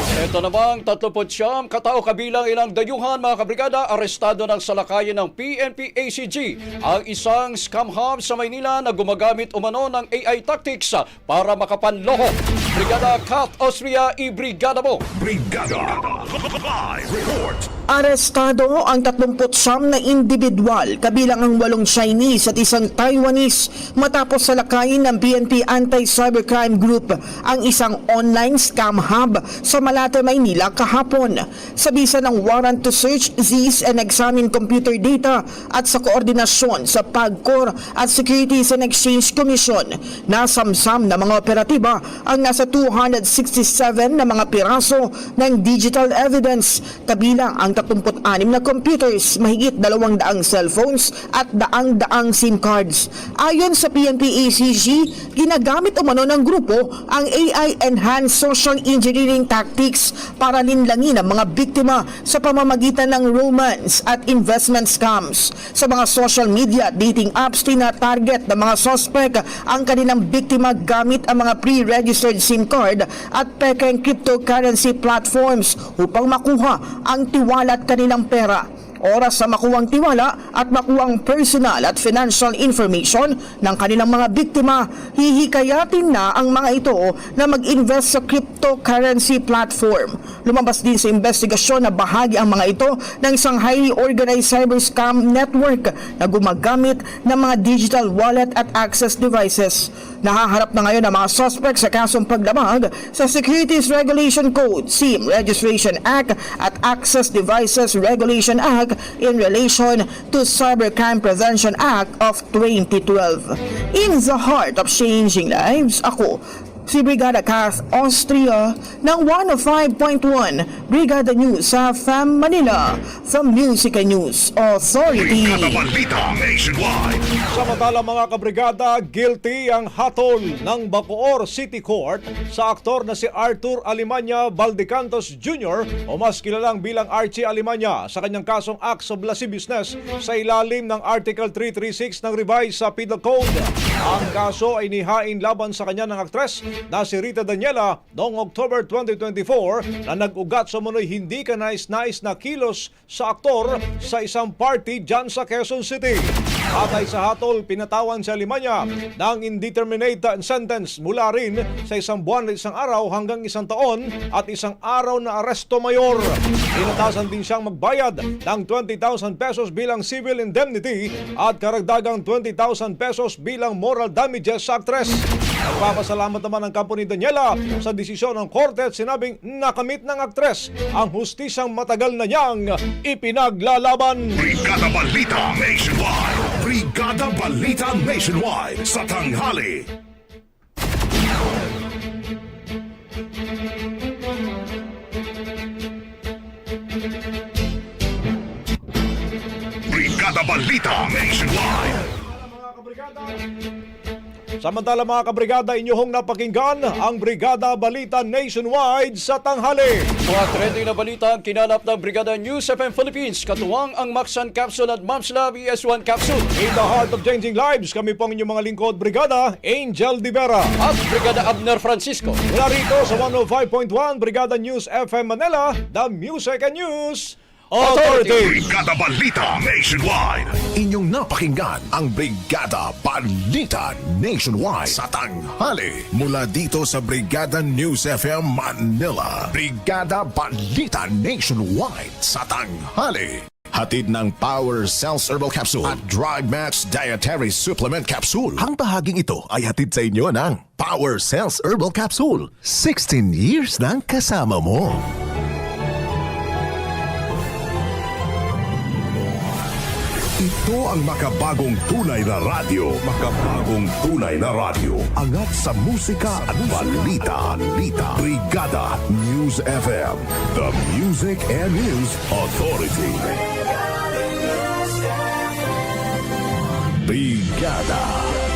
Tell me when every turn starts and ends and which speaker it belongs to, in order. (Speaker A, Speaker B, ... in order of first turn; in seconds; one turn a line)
Speaker A: 0.1-15.0
Speaker B: 15.2-17.7
Speaker C: 17.9-125.8
Speaker B: 125.2-127.3
Speaker D: 127.5-184.4
Speaker B: 184.4-189.9
Speaker B: 199.9-202.0
Speaker D: 202.1-203.4
Speaker D: 204.6-210.1
Speaker A: 210.2-216.5
Speaker D: 216.6-220.7
Speaker A: 220.8-222.4
Speaker D: 222.5-228.6
Speaker A: 227.8-228.6
Speaker B: 228.4-230.6
Speaker E: 230.8-255.0
Speaker B: 260.4-273.3
Speaker E: 266.8-267.1
Speaker E: 277.0-278.4